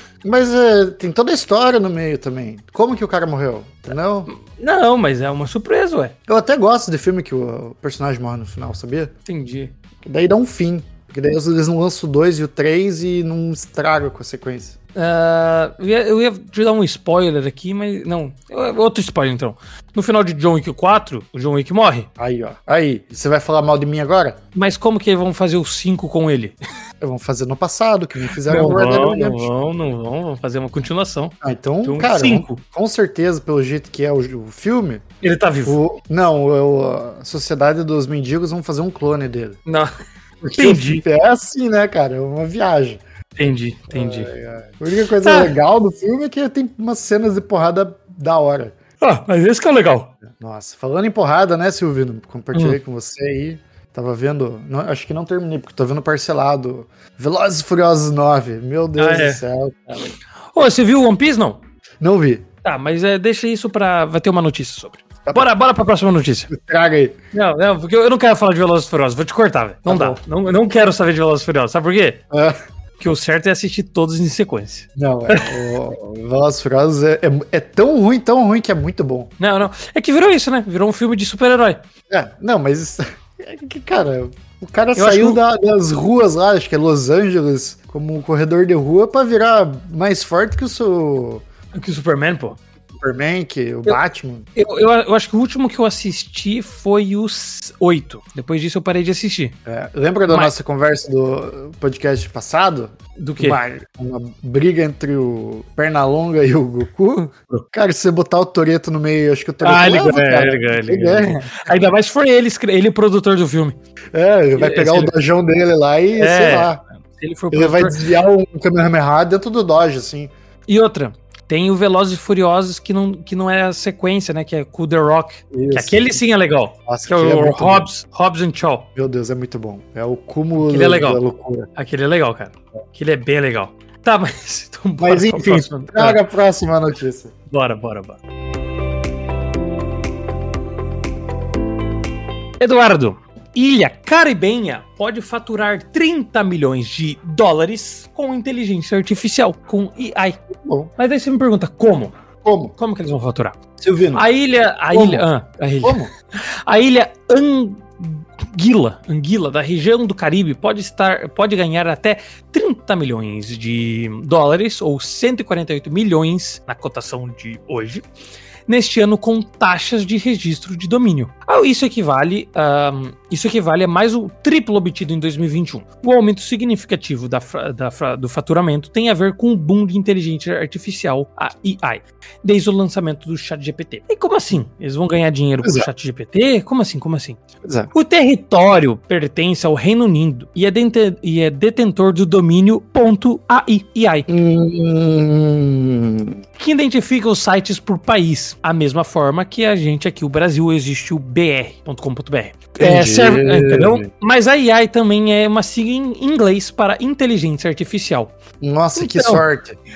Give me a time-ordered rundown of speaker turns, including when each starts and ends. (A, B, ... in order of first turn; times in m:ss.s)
0:00.2-0:04.3 A
0:04.3-0:06.2 B
0:06.3-0:09.1 A
0:09.3-0:09.7 B
0:10.0-0:14.8 A
0:15.0-0:22.1 B
0:22.2-0:24.4 A
0:24.6-0:26.6 B
0:27.0-0:29.5 A
0:28.4-0:32.6 B
0:31.4-0:35.0 A
0:35.2-0:35.8 B
0:35.6-0:39.6 A
0:40.4-0:43.0 A
0:40.6-0:41.0 B
0:43.4-0:44.3 B
0:43.9-0:48.8 A
0:45.2-0:45.6 B
0:49.0-0:50.1 B
0:50.2-1:00.1 A
0:59.0-0:59.4 B
1:00.0-1:01.6 B
1:02.0-1:02.5 A
1:02.6-1:06.5 B
1:06.5-1:07.2 A
1:07.3-1:12.2 B
1:09.9-1:10.2 A
1:12.3-1:12.6 A
1:13.0-1:15.6 B
1:15.0-1:19.3 A
1:19.4-1:21.8 B
1:22.1-1:31.4 A
1:25.0-1:25.4 B
1:31.7-1:32.6 B
1:32.9-1:34.5 A
1:34.6-1:39.6 B
1:39.7-1:51.7 A
1:40.3-1:40.5 B
1:43.2-1:43.6 B
1:49.6-1:53.8 B
1:54.1-1:56.8 A
1:54.6-1:55.1 B
1:56.2-1:58.1 B
1:57.5-2:00.3 A
2:00.7-2:08.9 B
2:05.5-2:06.2 A
2:06.9-2:07.9 A
2:09.0-2:11.7 A
2:10.6-2:11.2 B
2:11.8-2:16.2 B
2:15.0-2:17.3 A
2:17.5-2:18.2 B
2:22.6-2:30.4 B
2:30.6-2:30.9 A
2:31.0-2:32.2 B
2:32.4-2:32.8 A
2:32.8-2:33.6 B
2:33.8-2:34.3 A
2:34.1-2:48.0 B
2:34.9-2:35.3 A
2:35.8-2:36.1 A
2:48.7-3:14.3 B
3:05.6-3:05.9 A
3:07.6-3:07.9 A
3:14.3-3:16.4 A
3:16.6-3:28.3 B
3:22.8-3:24.1 A
3:28.6-3:29.8 A
3:29.0-3:29.4 B